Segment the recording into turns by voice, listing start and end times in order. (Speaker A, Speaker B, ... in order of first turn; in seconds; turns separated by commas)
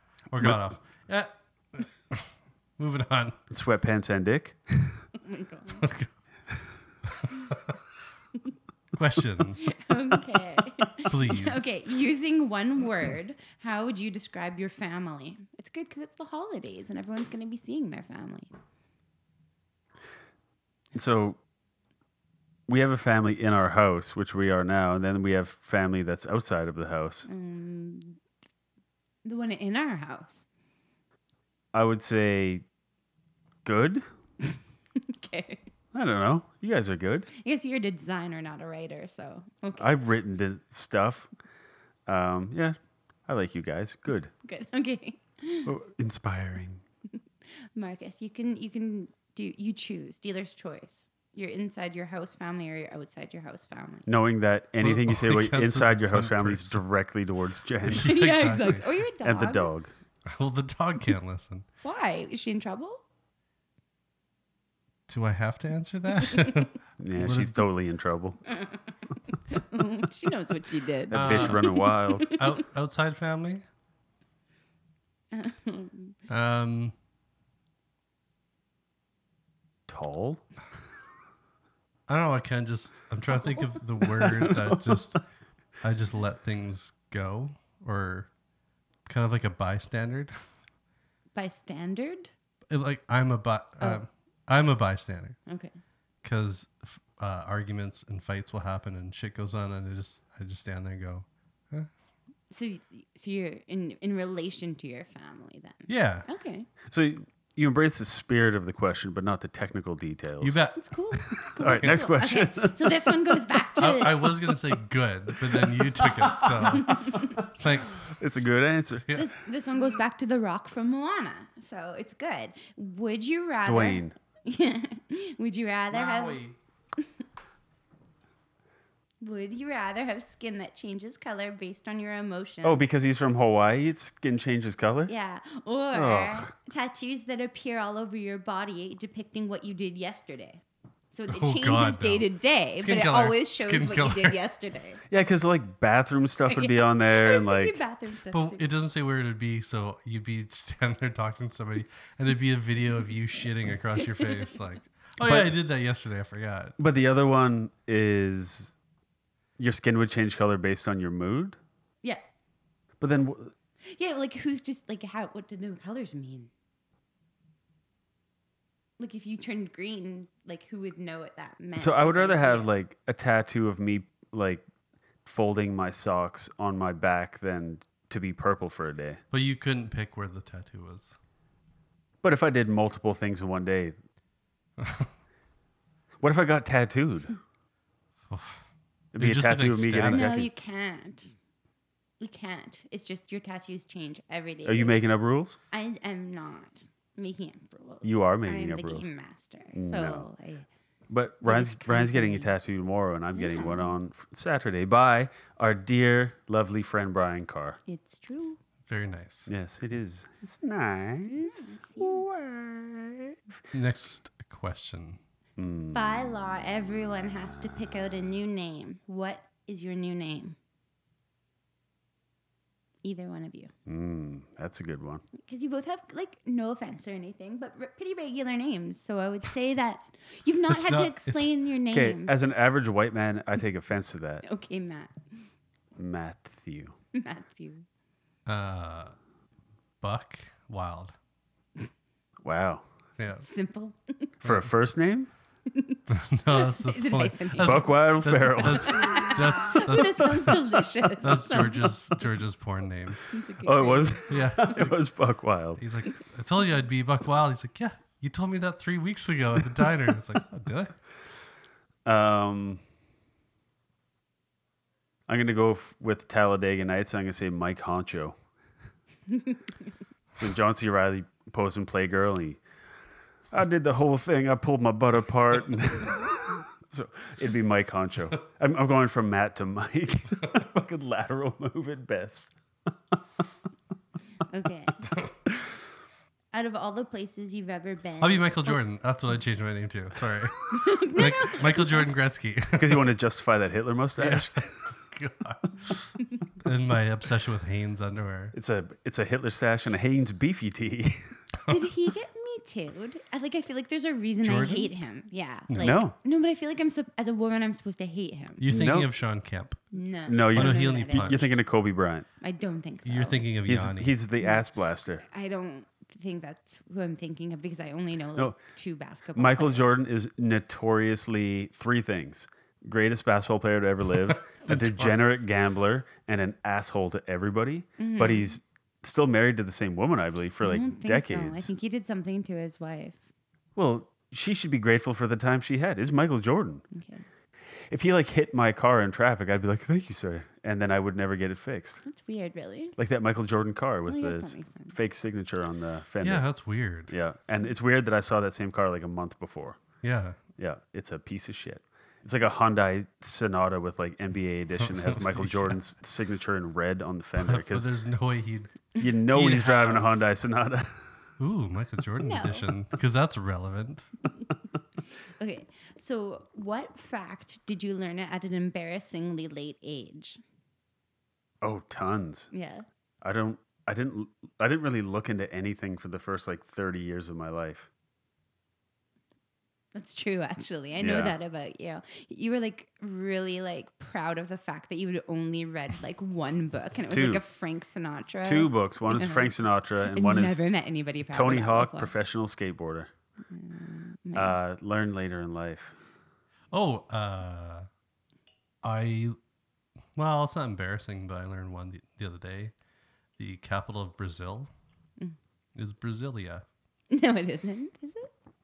Speaker A: 0.3-3.4, Speaker B: 3.5-5.0, Speaker C: 5.2-5.8, Speaker A: 5.8-6.1, Speaker A: 7.2-7.6, Speaker A: 9.0-9.6, Speaker C: 9.7-18.5, Speaker A: 11.1-11.7, Speaker B: 20.9-21.4, Speaker B: 22.7-27.2, Speaker C: 27.2-28.2, Speaker C: 29.2-30.4, Speaker B: 31.7-32.6, Speaker B: 33.6-34.0, Speaker C: 34.4-35.6, Speaker B: 35.9-37.3, Speaker C: 37.4-39.9, Speaker B: 39.8-41.3, Speaker B: 42.1-44.3, Speaker C: 44.4-45.7, Speaker B: 45.6-46.8, Speaker C: 47.7-54.1, Speaker B: 54.0-58.1, Speaker A: 54.8-56.8, Speaker A: 57.9-58.9, Speaker C: 58.0-59.7, Speaker B: 59.2-59.9, Speaker A: 60.3-61.6, Speaker C: 61.8-63.0, Speaker A: 65.1-67.6, Speaker C: 66.3-66.6, Speaker B: 67.0-68.4, Speaker C: 69.5-72.6, Speaker B: 71.1-72.3, Speaker A: 71.1-71.6, Speaker A: 72.3-73.6, Speaker C: 75.3-76.1, Speaker A: 76.3-76.9, Speaker B: 79.9-80.4, Speaker A: 82.1-85.2, Speaker C: 83.3-83.7, Speaker B: 84.1-85.2, Speaker A: 85.8-88.3, Speaker A: 89.0-90.3, Speaker C: 91.3-92.3, Speaker A: 92.7-95.4, Speaker C: 95.5-95.7, Speaker A: 96.2-101.9, Speaker C: 102.5-106.7, Speaker A: 105.9-106.3, Speaker B: 106.9-110.6, Speaker A: 110.4-112.1, Speaker C: 110.7-114.5, Speaker B: 111.6-113.7, Speaker A: 113.8-118.1, Speaker B: 115.5-117.3, Speaker C: 116.8-117.4, Speaker B: 118.2-119.1, Speaker C: 119.1-126.5, Speaker B: 123.6-124.1, Speaker A: 125.9-126.5, Speaker C: 129.2-132.8, Speaker B: 132.6-135.1, Speaker C: 135.1-145.0, Speaker B: 135.9-136.5, Speaker A: 141.3-144.4, Speaker B: 145.1-147.8, Speaker C: 146.5-148.7, Speaker A: 148.3-156.7, Speaker C: 153.9-154.5, Speaker B: 155.2-155.5, Speaker B: 156.8-158.7, Speaker B: 159.6-161.6, Speaker B: 163.0-163.5, Speaker C: 163.8-166.5, Speaker C: 169.0-172.7, Speaker B: 171.8-174.6, Speaker B: 175.2-179.2, Speaker A: 179.3-181.2, Speaker B: 182.2-183.9, Speaker A: 184.8-185.1, Speaker B: 186.2-187.3, Speaker A: 188.3-188.6, Speaker B: 189.1-190.5, Speaker A: 189.2-190.3, Speaker C: 190.0-191.3, Speaker C: 192.2-195.0, Speaker B: 194.6-195.6, Speaker C: 195.7-200.7, Speaker B: 198.0-199.1, Speaker B: 199.7-200.2, Speaker B: 201.1-207.8, Speaker C: 201.4-202.5, Speaker C: 203.3-203.9, Speaker C: 207.9-208.6, Speaker A: 208.8-209.5, Speaker B: 209.5-213.4, Speaker C: 211.3-212.2, Speaker A: 213.7-215.2, Speaker B: 215.6-216.2, Speaker C: 215.9-220.6, Speaker C: 223.0-223.7, Speaker B: 223.8-225.2, Speaker C: 225.3-232.3, Speaker A: 230.7-231.5, Speaker B: 231.9-234.4, Speaker C: 234.4-235.2, Speaker B: 235.9-236.9, Speaker C: 237.1-237.8, Speaker A: 238.5-239.1, Speaker A: 240.0-241.1, Speaker B: 242.4-242.8, Speaker A: 243.2-243.5, Speaker C: 243.4-244.3, Speaker B: 244.4-245.3, Speaker A: 244.4-244.7, Speaker A: 246.1-250.6, Speaker C: 246.5-252.1, Speaker B: 247.6-249.2, Speaker A: 251.2-253.2, Speaker C: 253.3-254.7, Speaker B: 253.6-255.8, Speaker A: 254.2-255.0, Speaker A: 255.8-260.9, Speaker B: 262.1-262.8, Speaker B: 265.3-268.4, Speaker B: 270.4-272.6, Speaker B: 273.5-282.5, Speaker C: 284.5-285.0, Speaker A: 285.0-285.3, Speaker C: 286.5-288.8, Speaker A: 288.2-293.1, Speaker C: 290.7-292.1, Speaker B: 292.8-294.7, Speaker A: 294.2-298.5, Speaker B: 298.5-301.3, Speaker C: 301.7-308.6, Speaker A: 304.4-304.9, Speaker A: 305.7-306.0, Speaker B: 305.8-306.1, Speaker A: 308.6-309.8, Speaker B: 308.7-309.1, Speaker C: 309.9-311.6, Speaker B: 310.3-312.3, Speaker A: 310.5-311.6, Speaker C: 312.4-313.5, Speaker A: 313.0-314.2, Speaker B: 313.6-315.2, Speaker C: 315.2-320.0, Speaker B: 319.3-331.7, Speaker A: 324.3-325.4, Speaker C: 328.0-328.6, Speaker C: 330.6-333.2, Speaker B: 333.8-336.8, Speaker C: 336.9-337.2, Speaker B: 337.9-342.0, Speaker C: 342.0-342.9, Speaker B: 342.9-346.4, Speaker C: 344.1-345.0, Speaker A: 346.2-347.1, Speaker B: 347.1-349.8, Speaker A: 350.0-350.4, Speaker B: 350.6-357.9, Speaker A: 354.8-355.8, Speaker A: 357.4-360.2, Speaker B: 358.9-361.1, Speaker A: 361.4-364.1, Speaker C: 362.2-362.7, Speaker C: 365.4-370.4, Speaker B: 371.6-372.5, Speaker C: 372.5-372.8, Speaker B: 373.2-377.9, Speaker C: 379.9-392.1, Speaker B: 381.0-381.4, Speaker B: 387.1-387.4, Speaker B: 388.4-390.7, Speaker B: 391.3-393.1, Speaker C: 393.5-394.6, Speaker B: 394.3-395.9, Speaker A: 396.7-397.9, Speaker A: 398.8-399.4, Speaker A: 400.1-402.7, Speaker A: 403.4-404.7, Speaker A: 405.8-406.6, Speaker C: 407.1-408.3